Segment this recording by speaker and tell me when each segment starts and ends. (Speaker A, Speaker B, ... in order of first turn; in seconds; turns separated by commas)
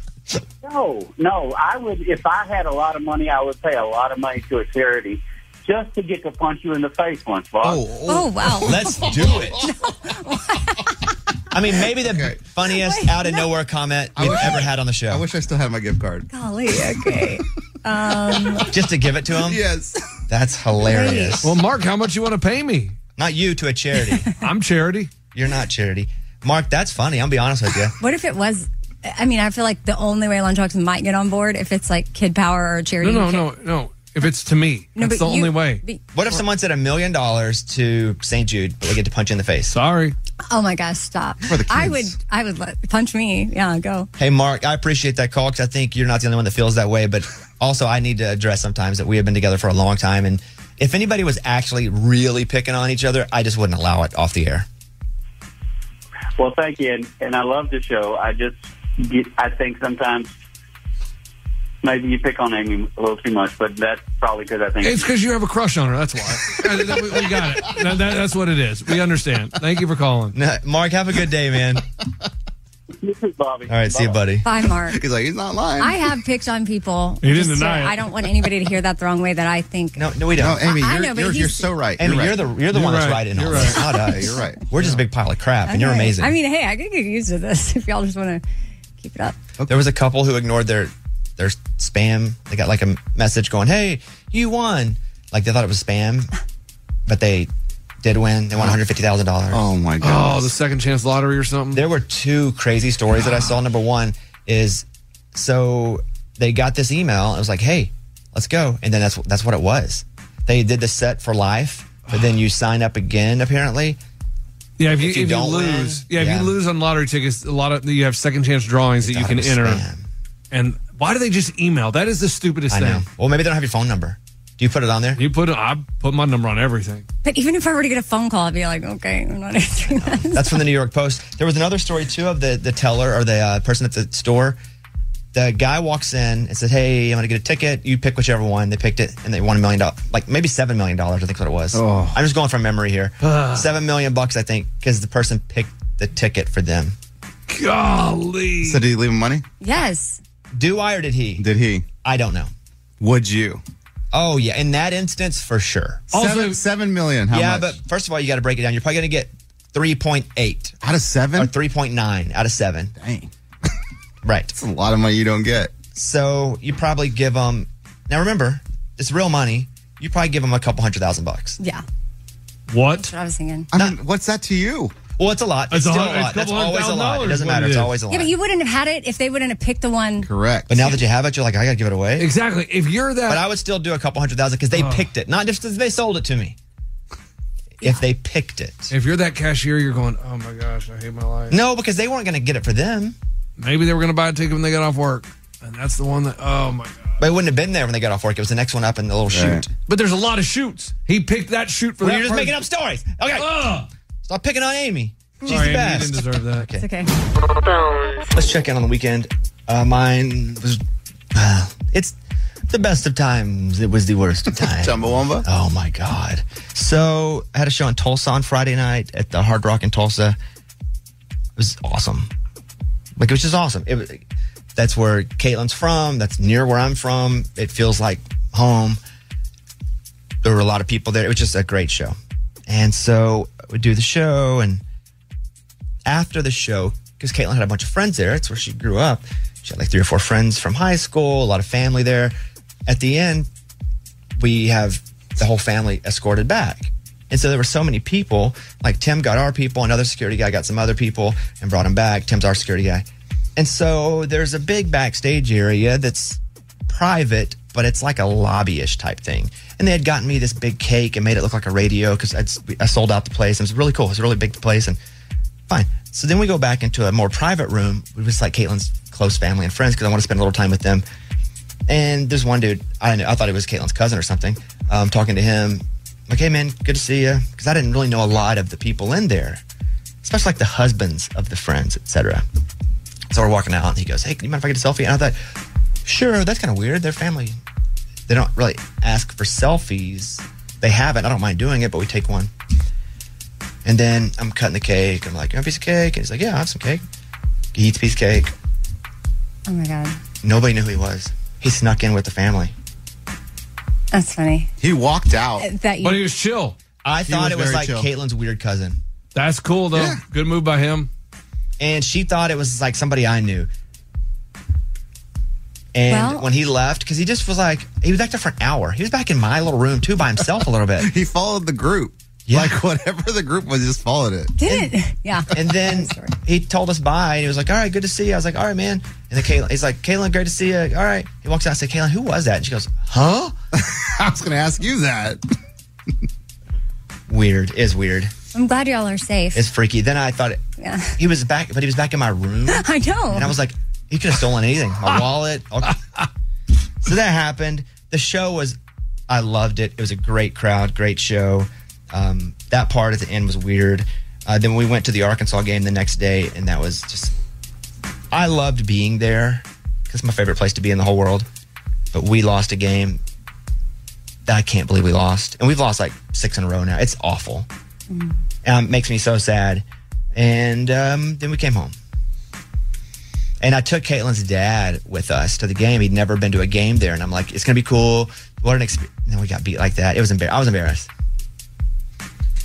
Speaker A: 0.6-7.9, Speaker B: 7.6-9.6, Speaker C: 8.0-11.0, Speaker D: 8.6-9.6, Speaker D: 11.5-15.2, Speaker B: 12.0-12.4, Speaker C: 12.7-13.4, Speaker B: 14.2-16.3, Speaker C: 16.3-18.7, Speaker D: 18.7-19.6, Speaker B: 19.4-20.0, Speaker D: 20.3-21.5, Speaker C: 20.8-21.5, Speaker E: 21.4-22.9, Speaker D: 23.2-24.3, Speaker E: 24.4-25.1, Speaker D: 25.3-27.9, Speaker C: 28.0-33.5, Speaker E: 33.0-35.8, Speaker C: 35.0-36.4, Speaker D: 36.1-39.7, Speaker E: 39.7-40.1, Speaker C: 40.5-44.1, Speaker B: 41.5-42.1, Speaker D: 44.2-54.6, Speaker A: 56.4-60.3, Speaker A: 61.8-65.1, Speaker E: 64.8-70.3, Speaker D: 70.3-71.8, Speaker A: 73.0-74.2, Speaker D: 73.7-74.4, Speaker C: 74.4-75.0, Speaker B: 74.8-76.0, Speaker C: 75.8-80.1, Speaker E: 77.2-78.0, Speaker D: 79.9-80.7, Speaker B: 80.4-82.4, Speaker C: 80.6-81.7, Speaker D: 82.0-86.3, Speaker E: 82.7-83.8, Speaker B: 83.5-84.6, Speaker C: 85.7-88.4, Speaker C: 89.0-89.4, Speaker D: 89.7-96.3, Speaker D: 97.1-97.5, Speaker D: 98.0-99.7, Speaker B: 99.5-100.5, Speaker E: 100.0-101.8, Speaker D: 101.7-114.0, Speaker E: 114.8-119.8, Speaker D: 114.9-116.5, Speaker D: 119.0-120.0, Speaker E: 120.5-123.0, Speaker D: 122.7-125.2, Speaker E: 125.2-127.0, Speaker C: 127.2-130.6, Speaker D: 129.9-134.6, Speaker D: 135.3-146.9, Speaker B: 141.7-142.2, Speaker E: 143.2-143.7, Speaker E: 147.5-148.8, Speaker B: 148.6-149.4, Speaker C: 149.6-150.2, Speaker D: 150.5-151.4, Speaker B: 151.4-151.8, Speaker D: 152.0-152.5, Speaker B: 153.0-153.6, Speaker D: 154.1-156.1, Speaker E: 156.1-156.6, Speaker B: 156.1-157.8, Speaker D: 157.3-160.8, Speaker B: 160.8-161.5, Speaker D: 161.3-162.9, Speaker B: 162.9-163.3, Speaker D: 164.2-164.5, Speaker B: 164.5-165.7, Speaker D: 165.9-171.6, Speaker E: 172.7-173.1, Speaker C: 172.9-173.7, Speaker B: 173.7-174.9, Speaker D: 175.2-178.3, Speaker E: 175.7-178.0, Speaker C: 178.1-180.9, Speaker B: 180.2-180.7, Speaker D: 180.7-182.3, Speaker E: 182.2-183.4, Speaker D: 183.2-186.6, Speaker E: 184.7-185.1, Speaker D: 187.8-188.9, Speaker E: 188.9-191.6, Speaker D: 191.5-193.2, Speaker E: 193.6-197.1, Speaker D: 197.2-199.7, Speaker B: 199.3-199.6, Speaker E: 199.9-202.6, Speaker D: 202.0-203.6, Speaker E: 203.3-203.9, Speaker D: 204.2-206.8, Speaker E: 205.4-206.7, Speaker C: 206.8-207.1, Speaker D: 208.3-210.8, Speaker D: 211.3-212.1, Speaker D: 212.7-220.4, Speaker B: 214.5-215.4, Speaker D: 221.6-222.3, Speaker D: 223.2-224.2, Speaker D: 224.8-229.0, Speaker D: 230.4-232.1, Speaker D: 232.7-234.8, Speaker D: 236.0-242.3, Speaker D: 242.9-243.5, Speaker D: 244.4-253.0, Speaker D: 253.6-265.0, Speaker D: 265.7-271.0, Speaker D: 271.9-279.6, Speaker D: 280.2-282.4, Speaker D: 283.3-285.4, Speaker D: 286.0-287.6, Speaker D: 288.3-292.5, Speaker D: 293.8-297.0, Speaker D: 297.7-298.5, Speaker C: 299.7-300.2, Speaker D: 300.4-302.7, Speaker C: 304.1-304.7, Speaker B: 304.8-305.7, Speaker C: 305.6-306.2, Speaker E: 306.0-306.8, Speaker D: 307.0-309.0, Speaker B: 307.2-308.1, Speaker E: 309.3-311.1, Speaker B: 309.9-310.2, Speaker D: 311.8-313.7, Speaker D: 315.9-321.1, Speaker C: 316.1-316.5, Speaker B: 321.0-324.5, Speaker D: 322.5-322.8, Speaker C: 324.6-326.3, Speaker D: 325.5-333.5, Speaker B: 333.7-335.4, Speaker D: 337.3-338.3, Speaker C: 338.5-339.7, Speaker D: 339.5-340.6, Speaker C: 340.8-341.1, Speaker D: 341.2-346.0, Speaker C: 342.7-343.5, Speaker D: 347.0-348.8, Speaker D: 349.3-357.3, Speaker D: 358.3-361.5, Speaker D: 362.1-363.2, Speaker D: 364.4-367.7, Speaker C: 368.1-368.4, Speaker D: 368.6-371.9, Speaker D: 373.6-381.1